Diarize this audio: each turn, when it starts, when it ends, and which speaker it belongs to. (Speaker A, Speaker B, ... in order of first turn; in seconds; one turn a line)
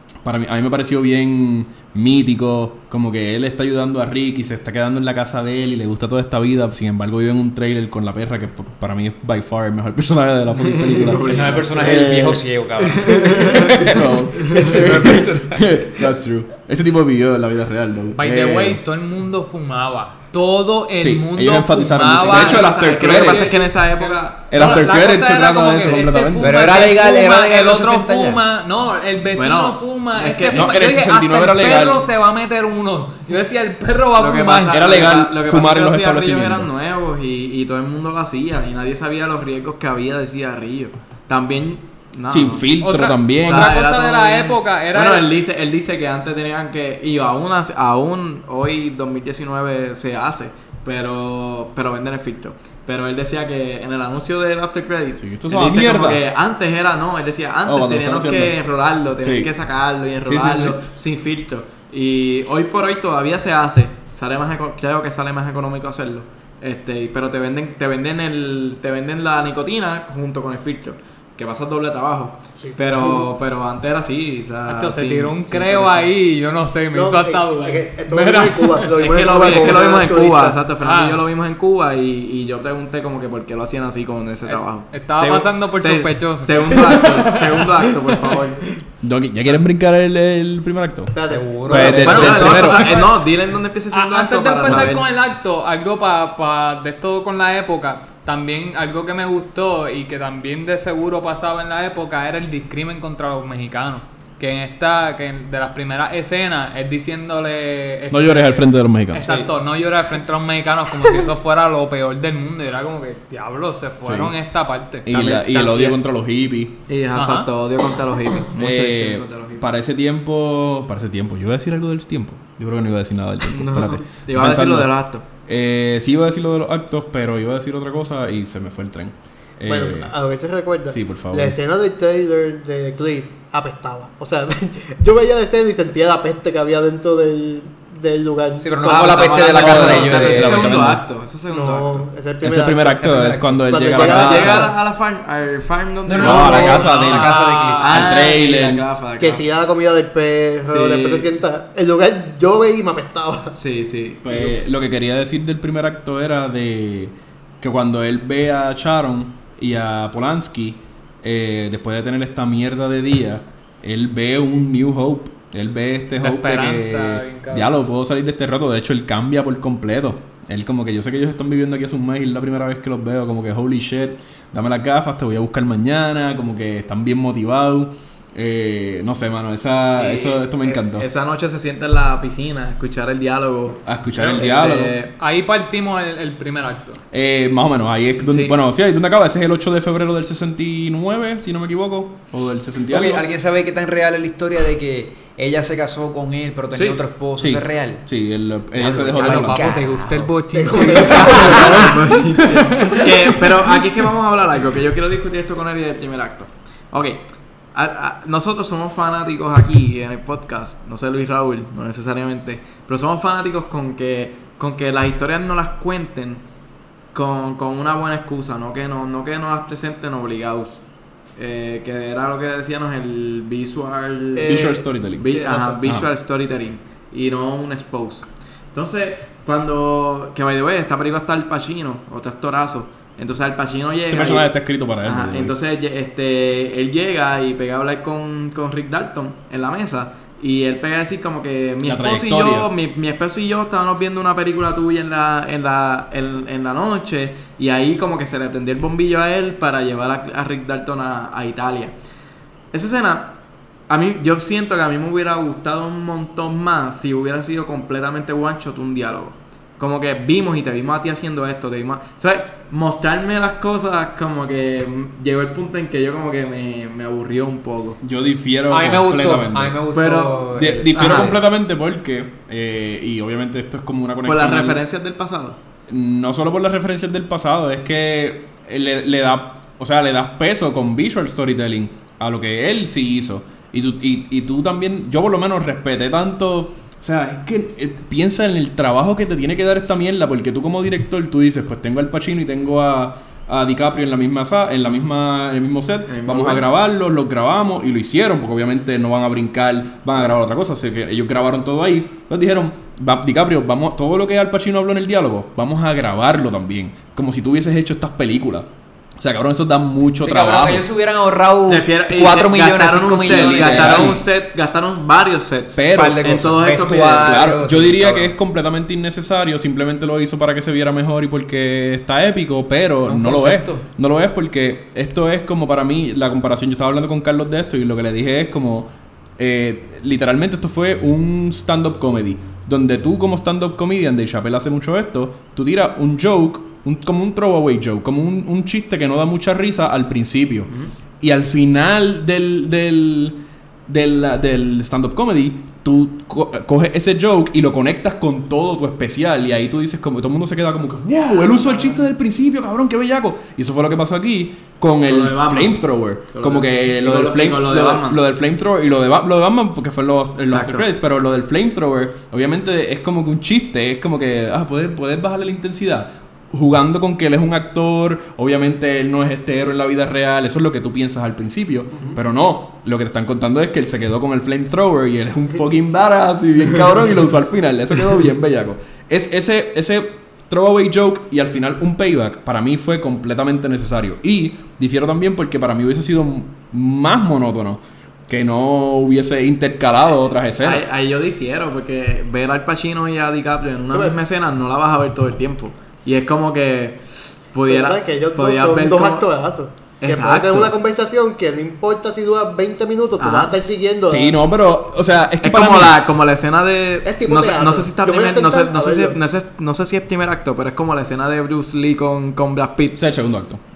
Speaker A: 0.2-12.5
Speaker B: 10.5-12.1
Speaker C: 11.2-14.0
Speaker B: 12.8-13.8
Speaker A: 13.4-18.8
Speaker B: 14.3-15.3
Speaker C: 14.7-15.1
Speaker D: 14.8-15.2
Speaker E: 18.2-35.0
Speaker A: 21.0-23.5
Speaker B: 22.2-24.8
Speaker A: 24.5-26.6
Speaker C: 26.4-28.4
Speaker B: 29.3-30.8
Speaker A: 30.5-32.0
Speaker B: 34.1-42.7
Speaker A: 34.7-36.7
Speaker A: 42.3-43.8
Speaker E: 42.8-45.3
Speaker B: 43.4-76.1
Speaker A: 55.2-56.2
Speaker A: 57.6-58.6
Speaker A: 59.2-59.5
Speaker A: 60.2-60.8
Speaker D: 72.6-73.3
Speaker E: 74.7-78.9
Speaker D: 76.9-80.6
Speaker B: 79.0-88.7
Speaker E: 80.8-81.2
Speaker E: 84.5-88.4
Speaker A: 89.0-91.1
Speaker D: 91.1-92.2
Speaker C: 91.2-92.5
Speaker A: 91.7-93.0
Speaker B: 91.7-95.1
Speaker E: 92.0-93.3
Speaker E: 93.9-115.4
Speaker A: 94.6-94.9
Speaker A: 108.1-109.3
Speaker B: 109.2-109.5
Speaker A: 114.0-114.3
Speaker A: 115.0-116.8
Speaker B: 115.2-116.0
Speaker B: 116.9-119.6
Speaker E: 117.1-117.5
Speaker A: 118.5-130.1
Speaker B: 123.5-125.2
Speaker D: 129.7-139.1
Speaker A: 130.9-131.6
Speaker C: 138.6-140.7
Speaker B: 138.8-142.1
Speaker A: 139.5-141.0
Speaker D: 141.5-143.1
Speaker A: 142.4-144.7
Speaker C: 143.0-144.7
Speaker D: 143.7-144.7
Speaker B: 143.9-147.2
Speaker C: 146.0-148.3
Speaker A: 146.1-147.3
Speaker E: 146.6-148.1
Speaker B: 147.8-149.4
Speaker A: 147.9-148.8
Speaker D: 149.2-153.6
Speaker B: 150.6-151.3
Speaker B: 153.6-154.5
Speaker A: 154.2-181.0
Speaker E: 166.2-167.8
Speaker B: 180.0-185.1
Speaker A: 183.8-185.0
Speaker E: 185.2-187.0
Speaker A: 187.1-193.2
Speaker E: 188.2-188.6
Speaker C: 192.9-198.0
Speaker B: 196.7-197.0
Speaker A: 197.4-199.7
Speaker C: 198.7-202.0
Speaker E: 199.2-201.9
Speaker D: 200.5-202.3
Speaker B: 201.1-216.4
Speaker E: 202.8-203.1
Speaker B: 217.1-220.8
Speaker B: 221.3-251.9
Speaker D: 224.3-225.8
Speaker A: 224.4-226.1
Speaker A: 234.1-235.6
Speaker A: 241.8-242.7
Speaker B: 252.7-268.0
Speaker A: 268.0-269.8
Speaker C: 268.7-271.4
Speaker B: 269.9-271.4
Speaker A: 270.5-274.8
Speaker B: 274.2-275.6
Speaker A: 275.9-310.8
Speaker B: 296.1-296.7
Speaker C: 310.2-314.2
Speaker B: 311.7-317.4
Speaker A: 313.2-314.2
Speaker A: 315.7-390.8
Speaker C: 315.9-318.3
Speaker C: 323.1-323.9
Speaker B: 351.3-352.0
Speaker B: 355.0-358.2
Speaker B: 360.5-360.9
Speaker B: 390.6-399.2
Speaker D: 393.9-394.2
Speaker D: 397.7-404.4
Speaker B: 400.0-400.7
Speaker B: 403.2-403.6
Speaker A: 404.0-406.0
Speaker B: 405.4-413.0
Speaker D: 407.0-409.2
Speaker A: 412.9-413.6